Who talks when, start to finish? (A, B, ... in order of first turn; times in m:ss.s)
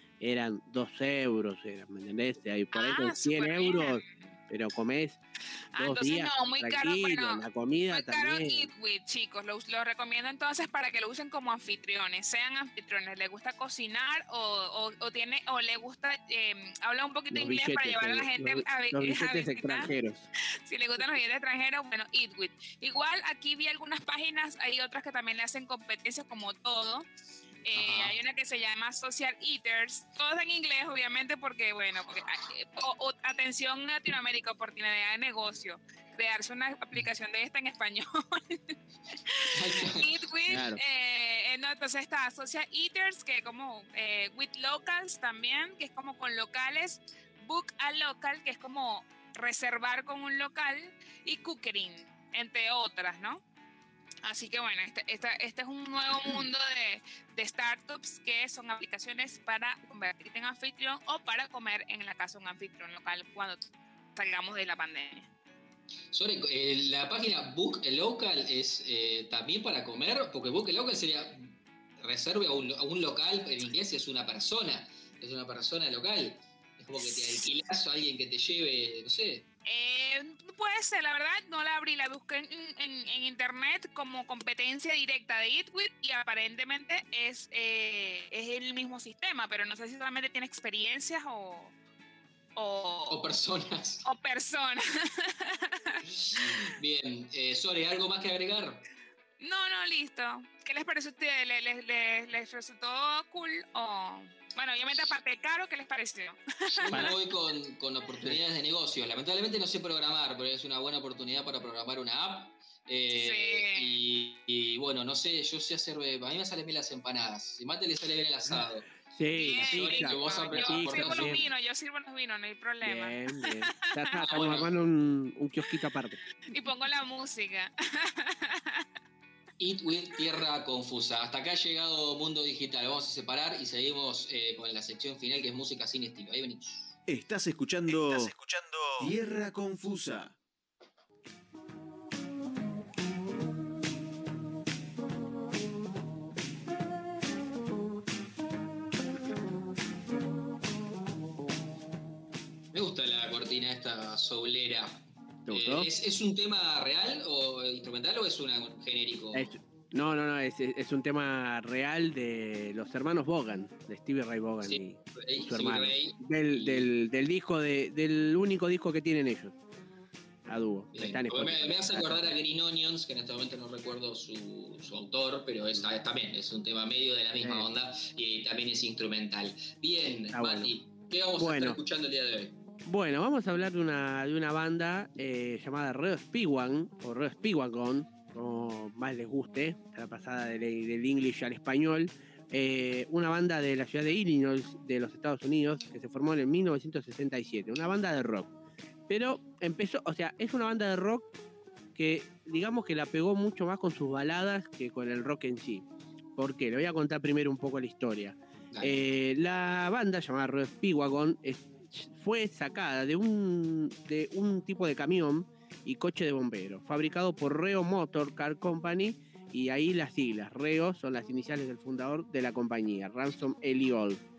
0:00.2-0:05.2 A
0:02.7-0:04.2 B
0:05.7-0:19.9 B
0:05.8-0:08.7 A
0:17.3-0:20.2 A
0:20.7-0:27.1 B
0:27.6-0:38.7 B
0:27.8-0:28.2 C
0:39.3-0:53.4 B
0:39.5-0:40.6 C
0:40.5-0:40.8 A
0:54.2-1:05.3 B
1:06.1-1:19.5 C
1:19.7-1:31.7 B
1:32.6-1:33.2 B
1:33.1-1:34.0 C
1:34.0-1:36.7 B
1:36.2-1:38.8 C
1:39.4-1:47.1 B
1:46.7-2:01.4 C
1:46.9-1:47.1 A
1:53.1-1:54.0 B
1:59.1-2:01.4 A
1:59.4-2:04.2 B
2:02.8-2:06.2 A
2:04.2-2:04.7 C
2:06.5-2:08.8 B
2:09.6-2:17.0 C
2:17.1-2:20.4 D
2:17.9-2:18.3 C
2:32.7-2:39.5 C
2:35.5-2:35.9 A
2:39.3-2:49.6 A
2:44.6-2:46.9 C
2:50.5-2:52.3 A
2:50.9-3:02.6 C
2:57.4-2:57.7 A
3:00.3-3:00.7 A
3:01.4-3:01.8 A
3:02.9-3:18.5 A
3:19.1-3:21.3 A
3:22.0-3:25.8 A
3:26.4-3:44.2 A
3:28.7-3:29.0 C